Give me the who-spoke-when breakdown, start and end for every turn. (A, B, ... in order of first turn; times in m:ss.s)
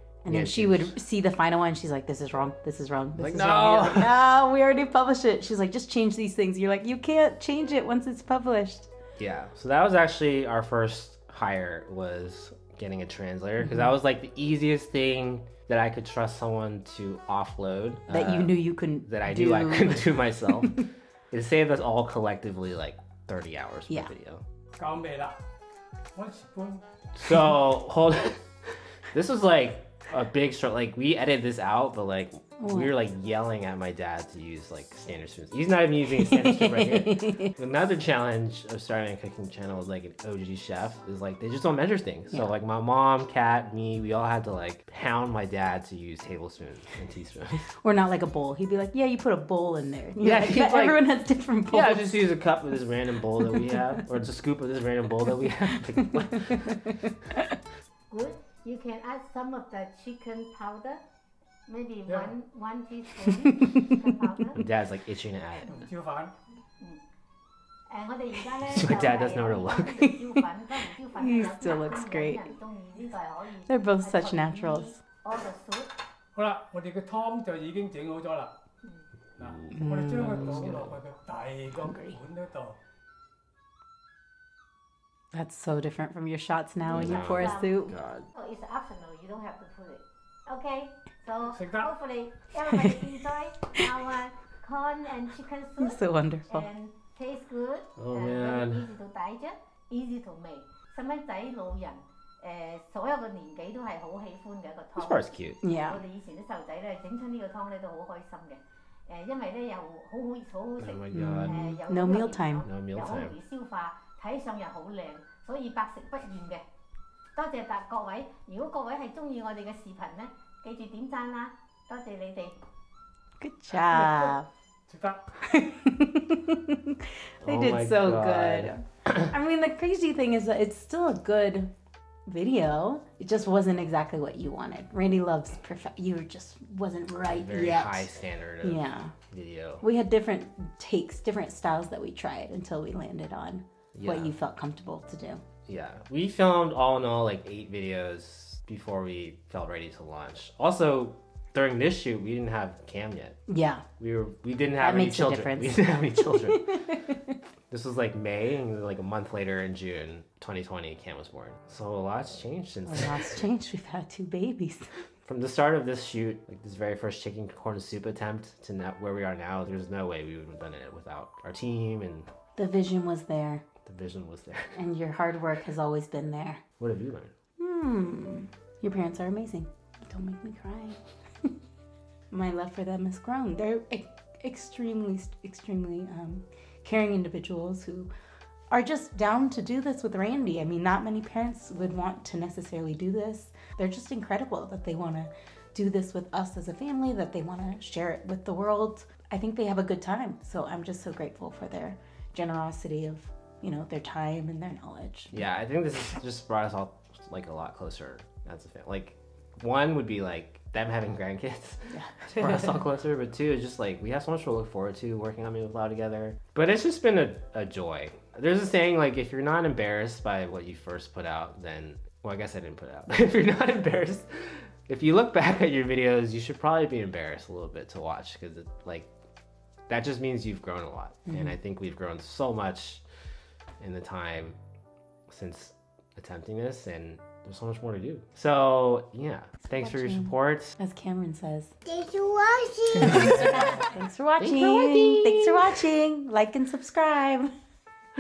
0:00.2-0:08.9 A
0:00.3-0:01.0 B
0:03.2-0:04.2 B
0:09.2-0:24.4 B
0:13.6-0:13.9 A
0:18.1-0:20.8 A
0:24.8-0:25.4 C
0:26.2-0:26.8 C
0:27.2-0:28.4 B
0:29.1-0:47.7 B
0:32.6-0:32.9 A
0:36.1-0:37.5 A
0:47.8-0:52.3 A
0:50.2-0:51.1 B
0:51.7-0:56.8 B
0:53.4-0:54.0 A
0:55.7-0:57.5 A
0:58.1-1:01.0 D
1:01.7-1:04.6 D
1:02.1-1:02.3 C
1:03.2-1:04.1 A
1:04.6-1:05.8 B
1:05.7-1:06.3 C
1:07.9-1:15.9 D
1:08.7-1:10.1 B
1:11.1-1:12.5 A
1:13.7-1:14.9 A
1:16.4-1:18.6 C
1:19.4-1:22.8 C
1:19.4-1:21.0 B
1:19.7-1:20.7 A
1:21.8-1:22.2 A
1:25.3-1:27.9 A
1:26.8-1:56.7 D
1:26.9-1:28.3 B
1:31.5-1:31.9 C
1:35.8-1:36.7 A
1:38.0-1:38.9 B
1:45.0-1:45.6 B
1:45.6-1:46.0 A
1:50.8-1:51.8 B
1:51.1-1:52.7 A
1:52.6-1:53.4 B
1:57.3-2:02.6 D
2:03.4-2:04.5 A
2:03.9-2:04.3 C
2:04.9-2:05.3 C
2:05.5-2:11.7 A
2:07.4-2:09.3 B
2:12.3-2:18.1 A
2:17.2-2:19.8 B
2:18.6-2:19.1 A
2:19.8-2:25.4 A
2:23.9-2:24.3 B
2:25.7-2:33.4 B
2:33.5-2:33.8 A
2:34.0-2:36.7 B
2:34.8-2:37.3 A
2:37.7-2:43.4 B
2:42.9-2:44.9 A
2:45.2-2:52.3 B
2:52.6-2:53.6 A
2:53.8-2:54.8 B
2:54.7-2:56.6 A
2:56.8-2:57.3 B
2:57.6-3:01.5 A
3:02.3-3:08.1 A
3:08.7-3:25.3 A
3:25.3-3:49.1 B
3:31.9-3:32.8 A
3:49.9-3:53.0 B
3:53.8-3:54.6 B
3:55.3-4:00.8 B
3:59.7-4:01.8 A
4:01.8-4:03.7 D
4:02.9-4:03.8 B
4:03.0-4:07.5 A
4:04.4-4:05.8 B